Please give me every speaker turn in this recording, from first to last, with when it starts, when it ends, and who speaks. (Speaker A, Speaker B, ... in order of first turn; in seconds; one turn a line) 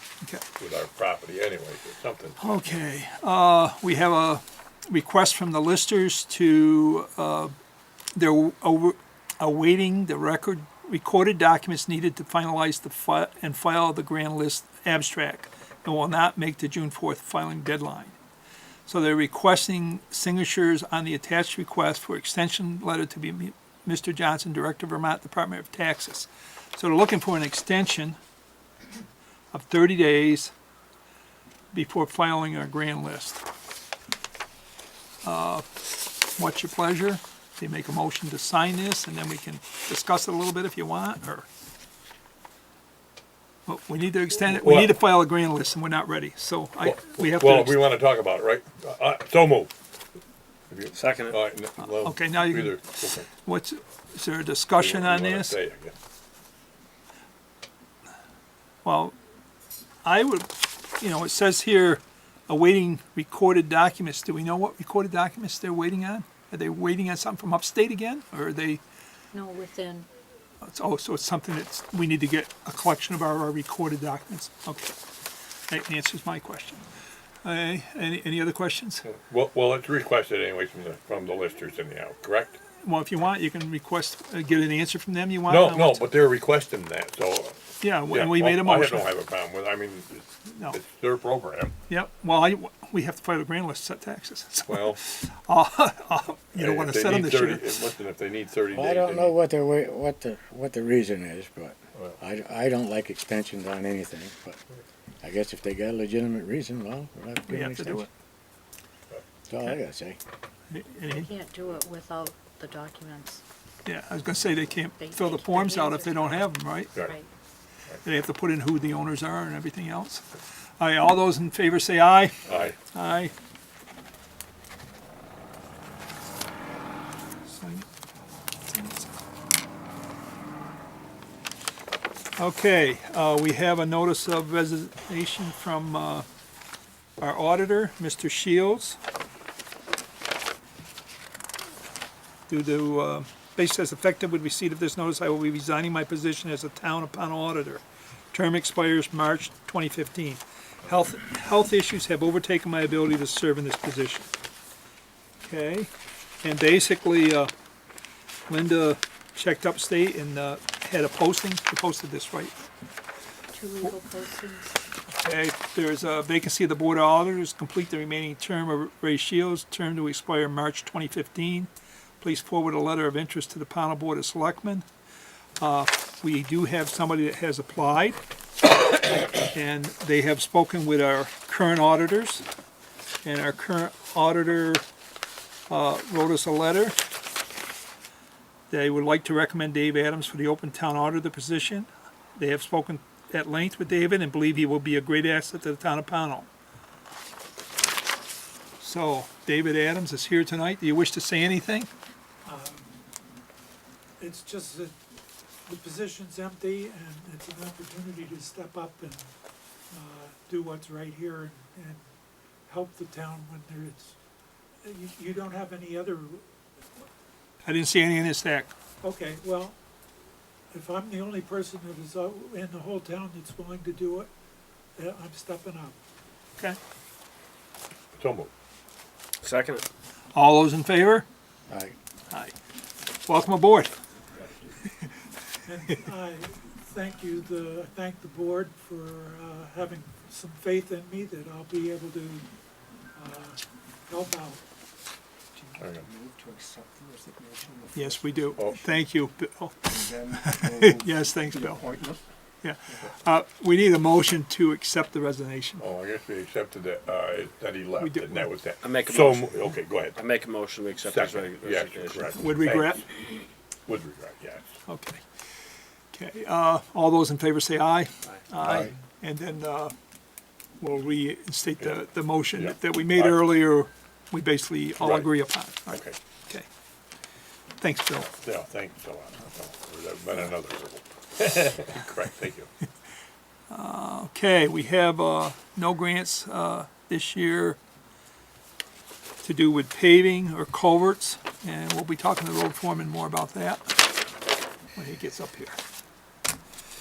Speaker A: 0.6-2.4
Speaker B: 2.4-7.5
Speaker B: 8.1-18.2
Speaker B: 18.9-28.2
Speaker B: 29.5-30.5
Speaker B: 31.7-33.4
Speaker B: 35.2-35.6
Speaker B: 36.3-41.5
Speaker B: 43.7-47.9
Speaker A: 44.4-45.0
Speaker A: 46.8-49.7
Speaker A: 50.7-53.3
Speaker C: 51.0-51.3
Speaker B: 51.9-55.5
Speaker A: 54.7-55.9
Speaker B: 58.8-59.1
Speaker B: 60.0-60.5
Speaker B: 61.0-68.8
Speaker D: 69.3-70.1
Speaker B: 70.6-74.9
Speaker B: 75.7-76.8
Speaker B: 77.4-79.0
Speaker A: 79.0-82.6
Speaker B: 82.8-86.1
Speaker A: 85.5-91.7
Speaker B: 87.8-89.1
Speaker B: 90.5-90.8
Speaker B: 91.9-97.8
Speaker A: 94.7-95.0
Speaker A: 96.5-99.4
Speaker E: 98.7-104.6
Speaker E: 105.2-108.1
Speaker B: 107.5-108.1
Speaker E: 109.5-110.2
Speaker B: 110.7-111.3
Speaker D: 111.0-113.4
Speaker B: 113.8-116.9
Speaker D: 115.0-116.5
Speaker B: 118.0-120.2
Speaker B: 120.8-122.4
Speaker A: 122.5-122.8
Speaker B: 122.9-123.3
Speaker B: 127.5-127.8
Speaker B: 128.7-129.1
Speaker B: 132.4-136.2
Speaker B: 137.2-139.0
Speaker B: 142.5-154.3
Speaker B: 155.4-155.9
Speaker B: 156.4-157.5
Speaker B: 158.5-162.5
Speaker D: 163.5-164.8
Speaker B: 165.2-174.8
Speaker B: 175.6-178.2
Speaker B: 179.3-182.4
Speaker B: 183.2-184.8
Speaker B: 185.7-186.9
Speaker B: 188.7-196.5
Speaker B: 198.8-201.9
Speaker F: 202.4-202.9
Speaker F: 204.2-204.9
Speaker F: 205.7-209.3
Speaker F: 209.9-212.0
Speaker F: 212.7-214.2
Speaker F: 214.8-216.4
Speaker B: 217.7-218.7
Speaker F: 219.0-219.8
Speaker F: 220.7-224.3
Speaker F: 224.9-226.0
Speaker A: 228.1-228.5
Speaker C: 229.4-229.8
Speaker B: 230.3-231.2
Speaker E: 231.7-231.9
Speaker B: 233.2-233.9
Speaker F: 235.6-242.4
Speaker F: 243.1-244.6
Speaker C: 245.7-248.6
Speaker A: 245.8-246.1
Speaker B: 247.9-251.9
Speaker C: 249.9-252.2
Speaker B: 252.6-255.8
Speaker A: 255.8-260.3
Speaker B: 258.0-258.5
Speaker C: 258.8-259.5
Speaker C: 260.2-262.2
Speaker A: 261.1-263.0
Speaker B: 262.3-263.0
Speaker A: 263.9-264.7
Speaker B: 264.9-265.2
Speaker B: 266.1-269.9
Speaker B: 270.8-276.6
Speaker A: 272.5-273.5
Speaker A: 275.0-275.3
Speaker A: 275.9-276.2
Speaker B: 277.8-278.3
Speaker A: 278.4-282.7
Speaker B: 283.7-287.8
Speaker B: 289.4-293.9
Speaker B: 294.9-295.8